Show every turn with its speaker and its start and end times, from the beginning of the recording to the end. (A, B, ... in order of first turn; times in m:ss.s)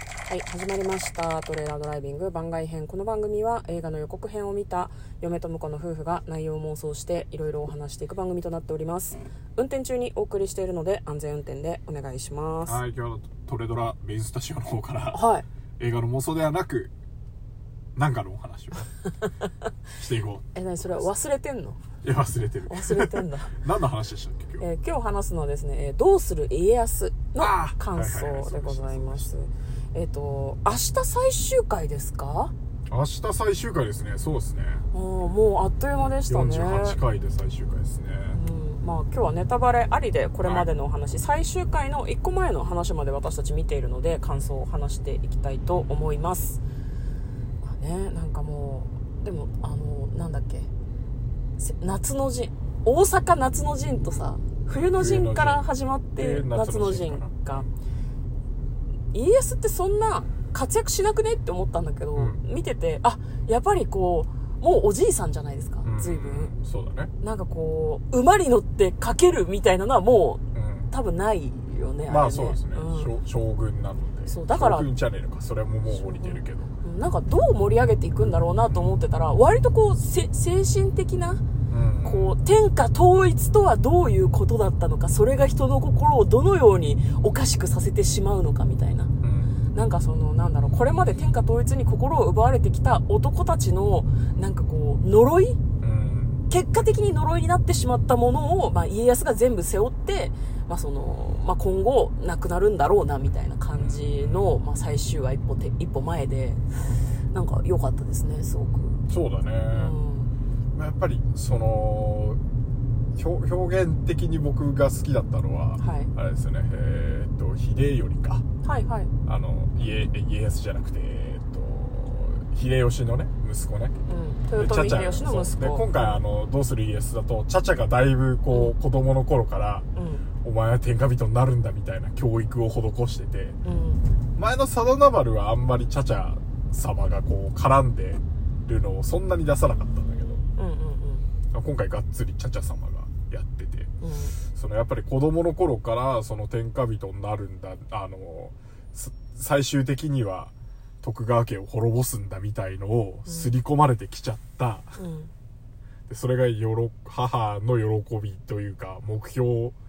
0:00.3-0:12.8 A
0:12.6-0:15.2 B
0:15.1-0:15.4 A
0:15.8-0:16.9 B
0:18.0-0:18.9 B
0:20.0-0:21.0 B
0:20.5-0:21.8 A
0:22.0-0:24.6 B
0:22.7-0:23.6 A
0:24.6-0:32.5 A
0:27.4-0:29.3 B
0:32.9-0:34.8 B
0:34.9-0:37.0 A
0:36.0-0:38.4 B
0:38.3-0:46.6 A
0:40.4-0:40.7 B
0:47.6-0:50.7 A
0:51.6-0:57.6 A
0:54.7-0:57.7 B
0:59.1-1:06.5 A
1:05.8-1:07.1 B
1:07.2-1:13.1 A
1:10.5-1:10.9 B
1:12.1-1:16.7 B
1:14.3-1:14.9 A
1:15.9-1:21.4 A
1:18.2-1:19.0 B
1:21.7-1:22.3 B
1:22.0-1:29.1 A
1:29.2-1:29.6 B
1:29.7-1:35.6 A
1:35.8-1:36.4 B
1:36.5-1:46.6 A
1:43.7-1:44.5 B
1:47.3-1:49.0 A
1:49.0-1:50.0 B
1:49.7-1:50.3 A
1:50.7-1:52.4 B
1:53.1-1:58.4 B
1:55.8-1:56.1 A
1:58.6-1:59.1 A
1:59.2-2:03.9 B
2:04.1-2:06.2 A
2:04.6-2:09.9 B
2:10.0-2:10.2 A
2:10.4-2:13.6 B
2:13.6-2:14.0 A
2:14.4-2:20.4 B
2:20.6-2:21.3 A
2:21.5-2:23.9 B
2:24.0-2:24.4 A
2:24.5-2:35.0 B
2:33.2-2:33.5 A
2:35.0-2:35.3 A
2:36.1-2:39.8 B